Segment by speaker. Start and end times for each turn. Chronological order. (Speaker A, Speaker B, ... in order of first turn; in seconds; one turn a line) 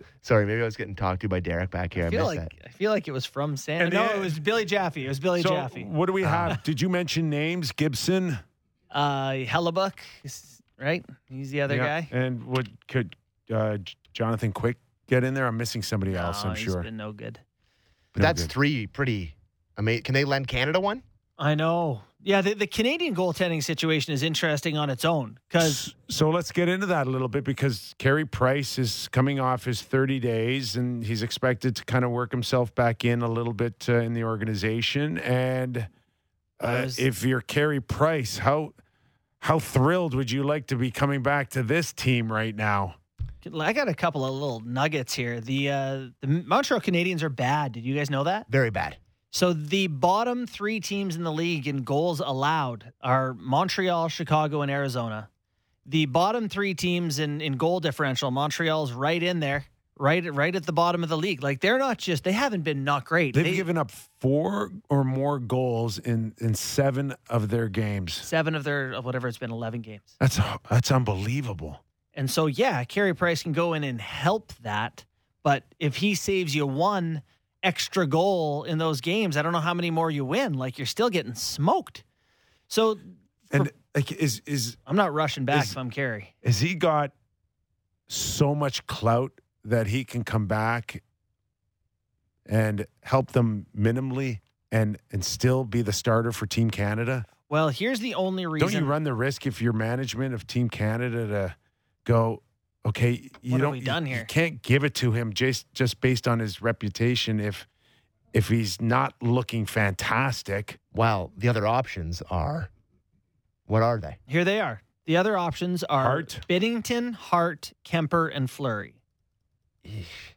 Speaker A: 0.2-2.5
Speaker B: 2.0-5.9
Speaker C: 3.8-4.4
Speaker C: 5.4-8.4
Speaker A: 6.2-6.6
Speaker B: 8.9-12.1
Speaker C: 11.7-16.9
Speaker B: 16.1-17.4
Speaker A: 18.1-21.0
Speaker C: 18.2-18.5
Speaker B: 21.4-25.8
Speaker C: 25.6-35.9
Speaker B: 36.6-37.0
Speaker C: 36.6-38.8
Speaker C: 39.4-43.0
Speaker B: 43.4-48.5
Speaker A: 48.5-49.0
Speaker B: 49.3-55.3
Speaker B: 55.9-63.7
Speaker C: 63.3-68.3
Speaker B: 68.2-70.2
Speaker C: 70.2-71.8
Speaker B: 72.2-82.0
Speaker B: 82.7-83.7
Speaker C: 83.5-84.8
Speaker B: 84.9-86.3
Speaker C: 86.4-87.1
Speaker C: 88.1-91.0
Speaker C: 92.5-97.3
Speaker B: 97.5-98.9
Speaker C: 98.6-107.7
Speaker B: 103.5-104.3
Speaker C: 108.3-110.8
Speaker A: 110.9-112.7
Speaker A: 113.7-114.2
Speaker B: 114.3-119.0
Speaker C: 116.0-116.4
Speaker A: 119.8-120.1